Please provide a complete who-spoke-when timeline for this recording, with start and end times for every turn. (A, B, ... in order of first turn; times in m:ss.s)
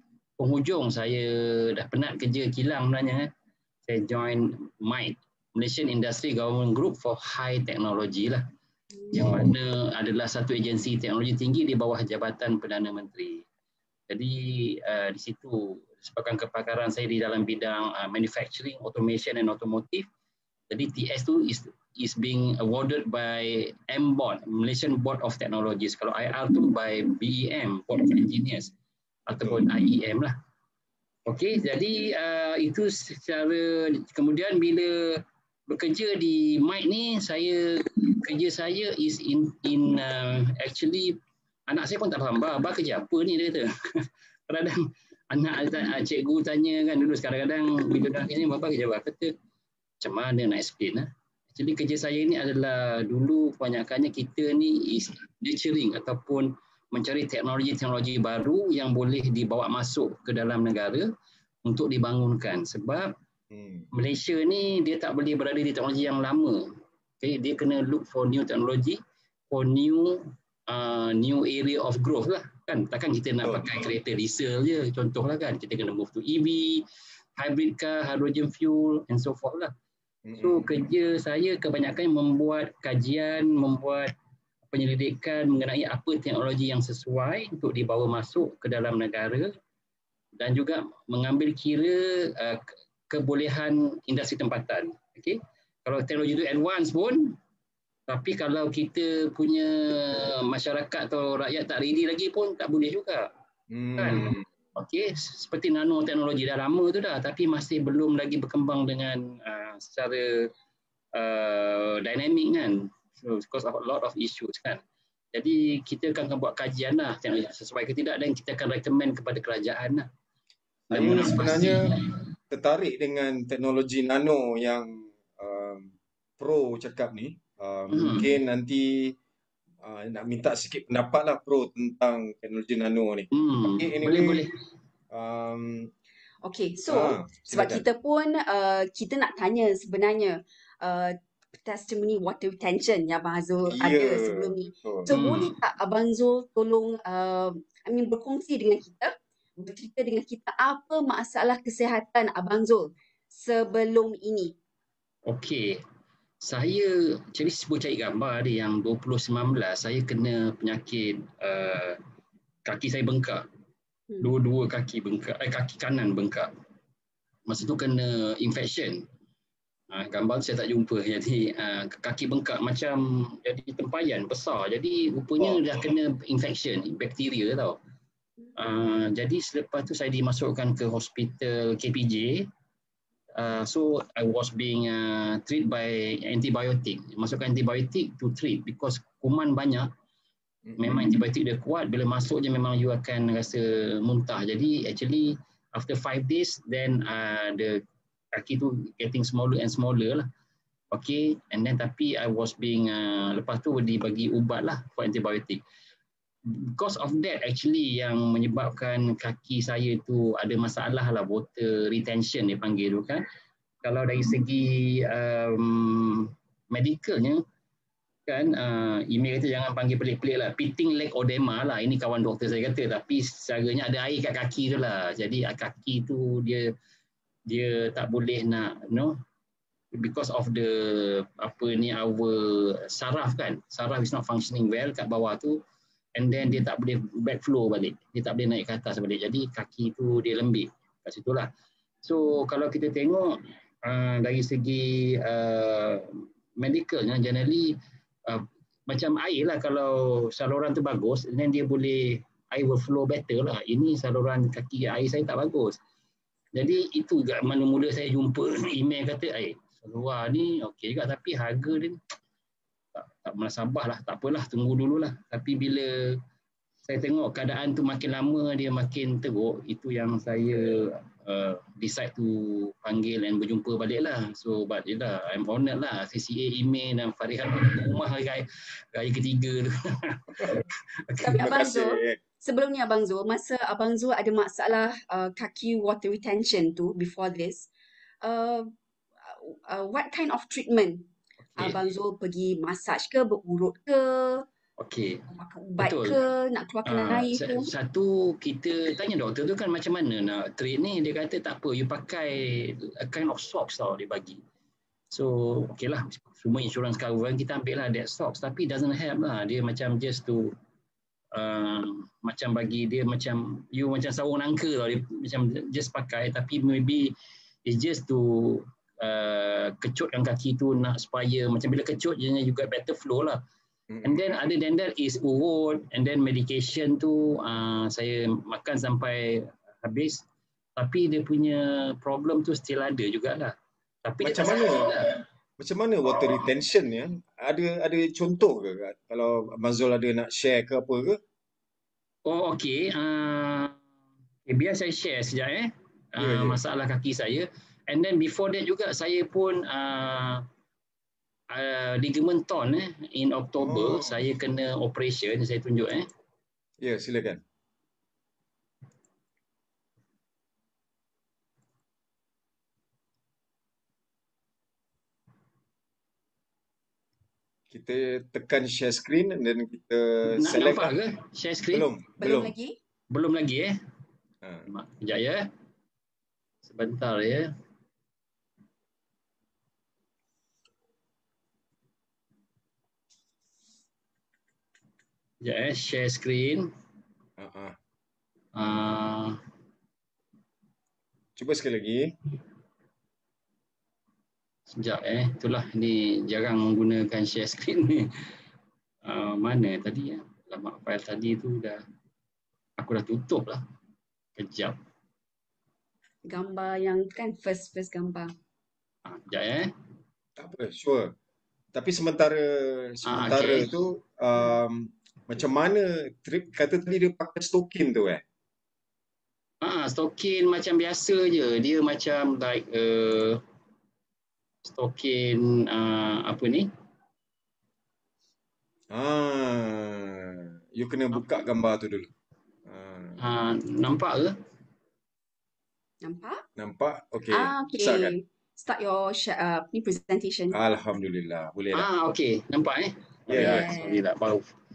0:00.4-0:03.3 A
0:03.8-0:08.4 A
0:08.9-0:09.5 B
0:09.1-0:13.4 A
0:14.1-0:20.1 A
0:20.7-0:28.7 A
0:29.3-0:30.3 A
0:29.3-0:29.6 C
0:31.2-0:49.3 A
0:50.0-1:01.1 A
1:01.6-1:03.1 A
1:03.5-1:03.9 C
1:03.9-1:06.7 A
1:07.2-1:09.0 A
1:09.5-1:19.7 A
1:13.4-1:13.7 C
1:20.3-1:20.7 C
1:20.4-1:24.1 A
1:24.7-1:29.5 A
1:30.4-1:37.4 A
1:38.1-1:43.3 A
1:43.7-1:44.5 C
1:44.0-1:50.5 A
1:51.1-1:54.8 A
1:55.3-2:00.1 A
2:00.9-2:02.0 C
2:00.9-2:02.2 A
2:02.5-2:09.2 C
2:07.9-2:08.3 A
2:09.8-2:14.5 C
2:13.3-2:14.5 A
2:15.1-2:15.9 C
2:16.4-2:34.5 B
2:16.9-2:17.8 C
2:23.7-2:25.1 C
2:25.1-2:25.5 A
2:35.2-2:35.8 A
2:36.4-2:42.0 A
2:42.6-2:43.4 A
2:44.2-2:46.5 A
2:47.4-2:49.0 A
2:49.9-2:57.8 A
2:58.5-3:02.5 A
3:03.3-3:09.9 A
3:10.6-3:11.2 C
3:10.8-3:17.8 A
3:18.3-3:20.3 A
3:20.9-3:25.6 A
3:26.5-3:33.2 A
3:33.8-3:37.4 A
3:38.2-3:46.7 A
3:47.5-3:49.2 A
3:49.9-3:55.6 A
3:56.1-4:01.5 A
4:02.0-4:15.8 A
4:16.5-4:22.0 A
4:22.9-4:26.2 A
4:26.8-4:41.5 A
4:41.2-4:47.7 B
4:41.3-4:42.2 C
4:48.2-4:48.7 B
4:49.3-4:54.4 B
4:54.8-4:55.3 A
4:55.3-4:57.7 B
4:55.8-4:56.2 A
4:56.8-5:04.4 A
5:05.1-5:10.5 A
5:11.3-5:23.4 A
5:23.9-5:24.2 C
5:24.0-5:30.2 A
5:30.8-5:35.2 A
5:34.2-5:35.0 C
5:35.6-5:41.2 C
5:42.2-5:43.8 A
5:44.5-5:50.4 A
5:46.2-5:46.6 C
5:51.5-5:56.1 A
5:53.6-5:54.2 C
5:56.8-5:57.4 C
6:07.7-6:11.0 C
6:10.3-6:11.9 A
6:11.7-6:12.5 C
6:12.2-6:12.8 B
6:13.1-6:13.8 A
6:14.4-6:14.7 C
6:14.7-6:15.5 A
6:16.6-6:17.5 A
6:25.4-6:26.7 A
6:27.4-6:27.8 C
6:28.5-6:29.4 A
6:31.4-6:32.1 C
6:34.7-6:38.1 A
6:39.0-6:41.8 A
6:42.8-6:43.6 A
6:44.4-6:44.8 A
6:46.2-6:48.3 B
6:49.0-6:49.7 A
6:50.4-6:51.1 C
6:51.7-6:58.2 C
6:53.0-6:53.7 A
6:59.6-7:03.4 A
7:04.6-7:06.7 A
7:08.9-7:12.1 C
7:11.1-7:11.4 A
7:12.6-7:13.2 C
7:13.2-7:14.3 A
7:16.0-7:16.4 B
7:16.6-7:18.1 C
7:17.3-7:20.6 B
7:20.5-7:21.9 C
7:21.7-7:24.5 A
7:23.3-7:23.7 C
7:23.3-7:24.0 B